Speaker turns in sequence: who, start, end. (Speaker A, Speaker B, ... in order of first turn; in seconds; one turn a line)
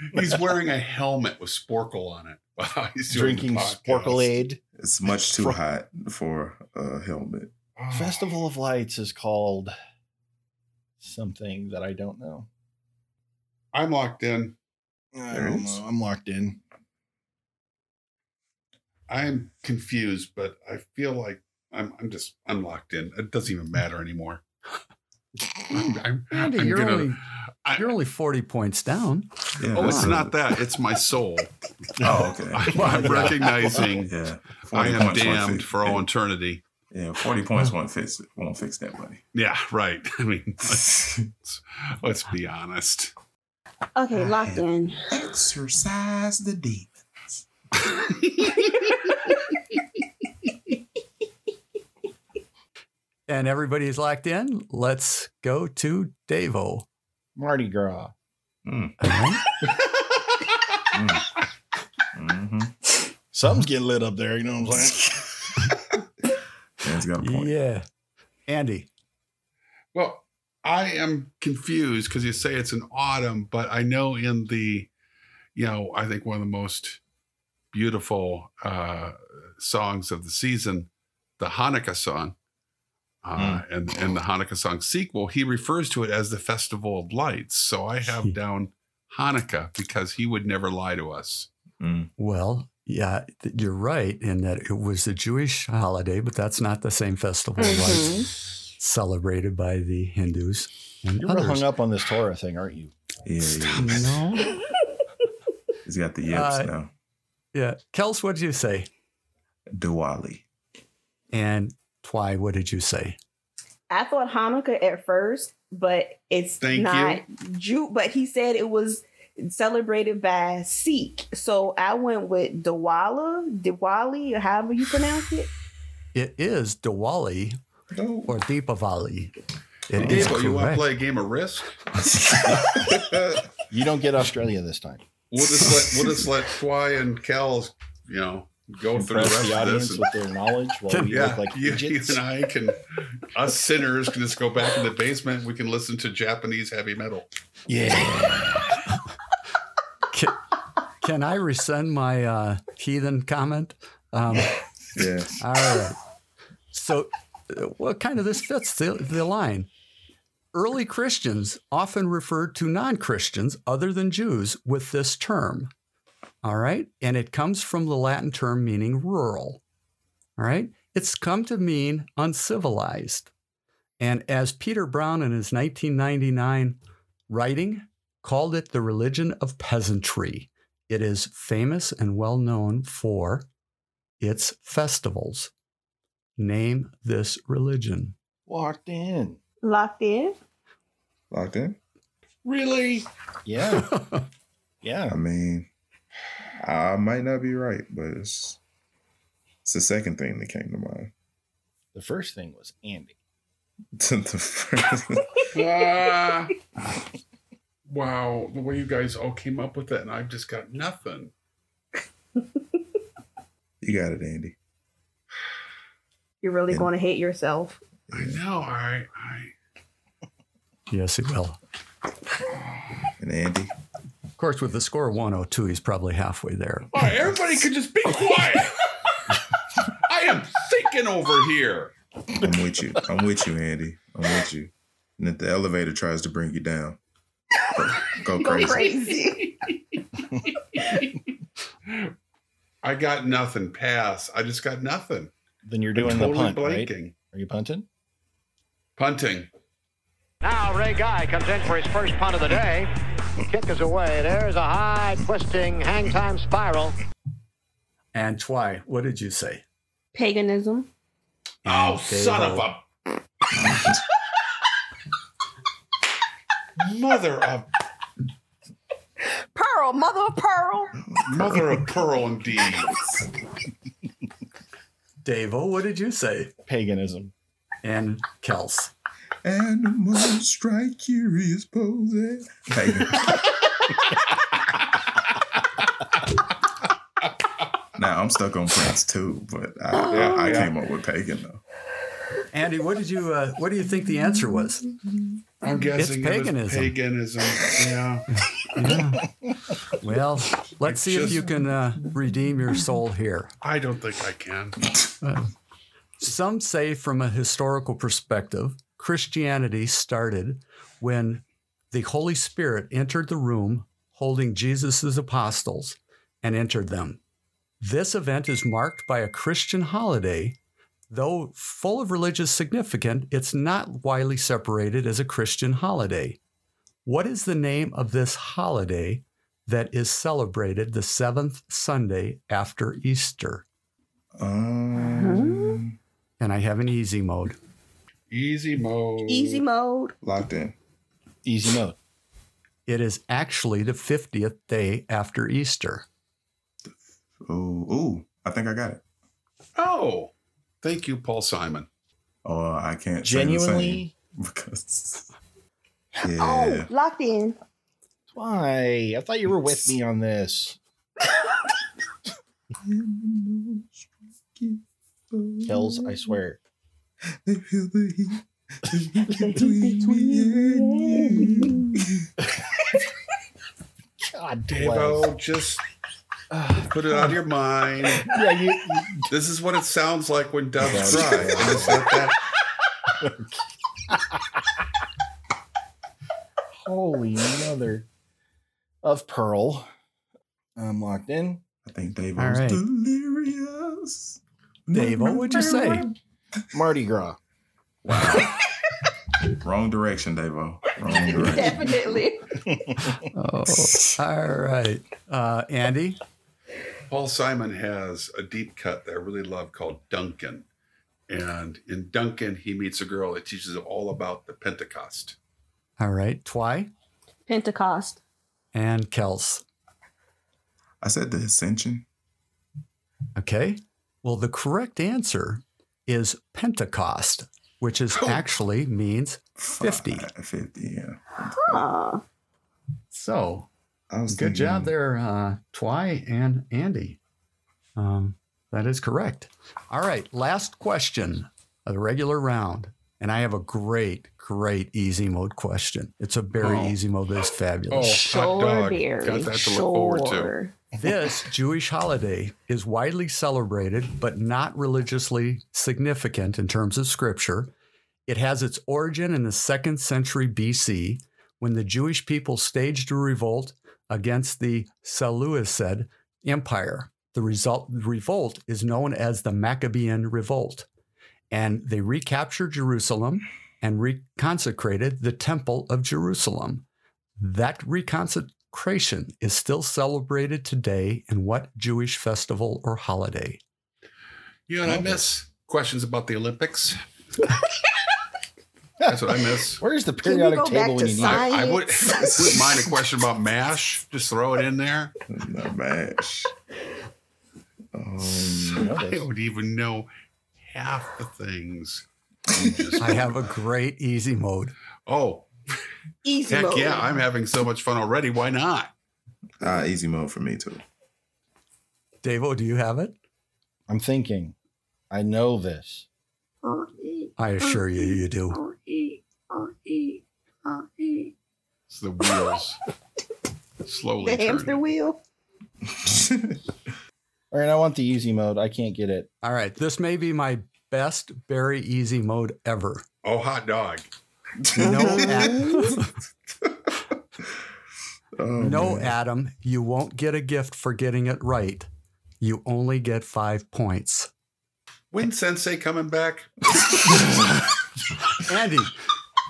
Speaker A: 0.1-4.4
Speaker B: 3.1-5.6
Speaker C: 4.8-7.5
Speaker A: 7.8-8.3
Speaker B: 7.9-9.7
Speaker B: 11.0-12.5
Speaker A: 13.7-14.5
Speaker B: 15.1-16.6
Speaker C: 15.3-15.8
Speaker A: 19.1-24.4
Speaker A: 25.7-27.1
Speaker D: 26.3-27.2
Speaker D: 27.7-30.3
Speaker C: 29.6-30.3
Speaker A: 29.7-31.5
Speaker C: 32.0-33.3
Speaker A: 32.5-34.1
Speaker B: 32.7-33.8
Speaker D: 32.8-33.3
Speaker C: 34.0-36.0
Speaker A: 34.7-36.6
Speaker C: 36.9-39.2
Speaker A: 39.3-43.1
Speaker C: 40.7-41.2
Speaker E: 44.0-45.1
Speaker C: 44.2-47.4
Speaker A: 47.9-48.9
Speaker D: 53.3-56.9
Speaker B: 57.4-58.1
Speaker C: 58.6-59.0
Speaker D: 59.0-59.4
Speaker C: 60.9-61.3
Speaker C: 62.1-62.7
Speaker B: 63.3-65.3
Speaker C: 66.8-67.6
Speaker D: 67.2-67.8
Speaker D: 68.5-68.9
Speaker A: 69.9-74.9
Speaker A: 75.5-77.0
Speaker A: 77.7-82.3
Speaker A: 83.2-91.5
Speaker C: 83.3-83.6
Speaker C: 91.8-92.1
Speaker D: 92.2-98.3
Speaker E: 97.6-98.3
Speaker D: 98.8-101.7
Speaker B: 101.2-102.9
Speaker C: 103.2-104.1
Speaker D: 103.8-104.6
Speaker C: 105.8-106.9
Speaker D: 106.3-106.7
Speaker D: 107.5-108.9
Speaker C: 109.7-110.4
Speaker D: 111.3-113.2
Speaker E: 113.9-125.5
Speaker A: 116.6-117.2
Speaker D: 126.1-127.6
Speaker C: 127.9-128.4
Speaker D: 128.3-129.3
Speaker D: 129.9-130.9
Speaker A: 130.0-131.8
Speaker C: 130.0-130.4
Speaker C: 132.0-133.5
Speaker B: 133.7-135.0
Speaker A: 135.3-140.0
Speaker B: 138.9-142.2
Speaker D: 140.9-141.2
Speaker A: 141.1-147.3
Speaker B: 147.7-148.8
Speaker D: 150.1-150.4
Speaker D: 151.0-154.5
Speaker C: 154.9-155.4
Speaker D: 155.4-156.0
Speaker D: 156.7-159.7
Speaker D: 160.5-165.7
Speaker D: 166.4-169.6
Speaker D: 170.4-173.3
Speaker D: 174.0-176.8
Speaker D: 177.3-183.4
Speaker D: 184.2-185.5
Speaker D: 186.4-188.1
Speaker B: 188.5-189.4
Speaker E: 189.6-190.3
Speaker C: 191.3-191.8
Speaker A: 192.4-193.1
Speaker B: 193.4-194.0
Speaker D: 193.9-194.2
Speaker B: 194.8-195.2
Speaker C: 195.1-195.7
Speaker C: 196.6-198.6
Speaker C: 199.6-201.1
Speaker B: 201.9-203.2
Speaker C: 203.9-205.4
Speaker A: 205.5-206.6
Speaker A: 207.9-211.3
Speaker C: 213.8-214.6
Speaker E: 216.4-217.8
Speaker A: 218.1-219.5
Speaker D: 220.9-221.6
Speaker C: 223.2-223.7
Speaker D: 224.4-227.0
Speaker A: 226.9-228.8
Speaker A: 230.1-231.9
Speaker C: 232.4-237.0
Speaker C: 237.7-238.9
Speaker E: 238.4-239.6
Speaker A: 240.7-241.2
Speaker A: 242.8-245.3
Speaker B: 245.6-247.8
Speaker A: 246.0-247.1
Speaker A: 249.0-249.5
Speaker F: 250.4-252.9
Speaker F: 253.5-256.9
Speaker D: 258.1-259.6
Speaker E: 260.1-260.9
Speaker D: 261.6-262.7
Speaker A: 261.6-262.8
Speaker A: 266.8-267.7
Speaker E: 269.5-270.9
Speaker C: 271.0-271.9
Speaker A: 271.2-272.9
Speaker D: 275.2-276.5
Speaker B: 276.7-277.3
Speaker D: 277.8-278.9
Speaker C: 279.4-283.4
Speaker C: 287.9-291.6
Speaker E: 290.0-290.6
Speaker A: 290.1-290.7
Speaker D: 292.5-294.8
Speaker A: 295.6-298.3
Speaker D: 296.0-296.9
Speaker D: 298.4-299.3
Speaker D: 299.9-303.5
Speaker A: 300.9-301.5
Speaker A: 303.6-304.8
Speaker D: 305.2-305.5
Speaker D: 306.2-317.2
Speaker D: 317.8-320.6
Speaker D: 321.1-326.4
Speaker D: 327.1-333.6
Speaker C: 334.4-335.9
Speaker E: 335.0-335.8
Speaker D: 336.4-337.6
Speaker A: 338.3-339.6
Speaker E: 339.3-340.1
Speaker C: 340.2-340.8
Speaker B: 341.4-341.9
Speaker D: 342.9-346.1
Speaker C: 346.9-349.0
Speaker A: 349.8-351.9
Speaker C: 352.4-355.3
Speaker B: 353.2-354.1
Speaker C: 356.2-356.9
Speaker E: 356.3-357.6
Speaker B: 358.3-360.8
Speaker C: 362.8-366.4
Speaker B: 365.6-366.6
Speaker C: 367.4-372.3
Speaker E: 369.4-371.9
Speaker B: 374.2-375.3
Speaker A: 374.7-375.8
Speaker B: 376.5-377.4
Speaker A: 376.9-378.3
Speaker B: 378.1-379.3
Speaker A: 379.3-382.4
Speaker B: 380.8-382.1
Speaker C: 381.1-381.8
Speaker B: 383.2-383.5
Speaker B: 384.1-384.4
Speaker B: 386.9-388.1
Speaker B: 389.0-389.9
Speaker B: 390.8-391.6
Speaker C: 391.9-396.1
Speaker D: 392.4-392.8
Speaker D: 394.9-396.1
Speaker B: 396.7-397.4
Speaker C: 398.1-398.6
Speaker C: 399.5-402.2
Speaker E: 401.3-402.4
Speaker B: 402.6-403.2
Speaker D: 403.3-406.2
Speaker A: 407.1-410.6
Speaker A: 411.3-415.4
Speaker D: 416.0-416.9
Speaker E: 417.5-418.2
Speaker D: 418.7-419.6
Speaker C: 421.0-422.1
Speaker D: 423.4-430.3
Speaker A: 428.1-428.4
Speaker C: 429.6-431.8
Speaker E: 431.5-432.2
Speaker D: 433.1-433.7
Speaker C: 434.1-434.9
Speaker D: 434.3-437.2
Speaker D: 437.9-448.3
Speaker A: 446.6-446.9
Speaker A: 447.9-450.5
Speaker E: 448.3-450.7
Speaker D: 451.0-457.7
Speaker D: 458.3-470.9
Speaker D: 471.5-476.9
Speaker D: 477.4-483.6
Speaker A: 484.7-487.0
Speaker C: 484.8-485.2
Speaker A: 489.1-489.8
Speaker B: 489.8-491.6
Speaker E: 490.2-492.4
Speaker A: 491.2-495.1
Speaker C: 492.1-492.6
Speaker C: 495.3-496.5
Speaker C: 497.9-498.9
Speaker B: 498.2-499.3
Speaker A: 498.8-500.1
Speaker A: 500.6-503.3
Speaker D: 503.0-504.7
Speaker A: 505.1-505.5
Speaker E: 506.2-507.2
Speaker A: 506.5-508.9
Speaker C: 509.6-510.8
Speaker D: 512.2-513.1
Speaker B: 513.9-514.5
Speaker B: 515.1-516.1
Speaker E: 516.6-521.3
Speaker D: 517.4-518.6
Speaker A: 521.9-522.8
Speaker A: 523.8-524.8
Speaker E: 524.2-525.2
Speaker C: 526.0-526.5
Speaker B: 527.5-529.3
Speaker D: 529.4-533.0
Speaker A: 533.2-534.0
Speaker C: 534.6-535.9
Speaker D: 534.8-536.1
Speaker E: 534.9-535.9
Speaker C: 538.4-539.1
Speaker D: 538.6-541.9
Speaker D: 542.4-544.3
Speaker A: 545.1-546.6
Speaker D: 548.4-548.9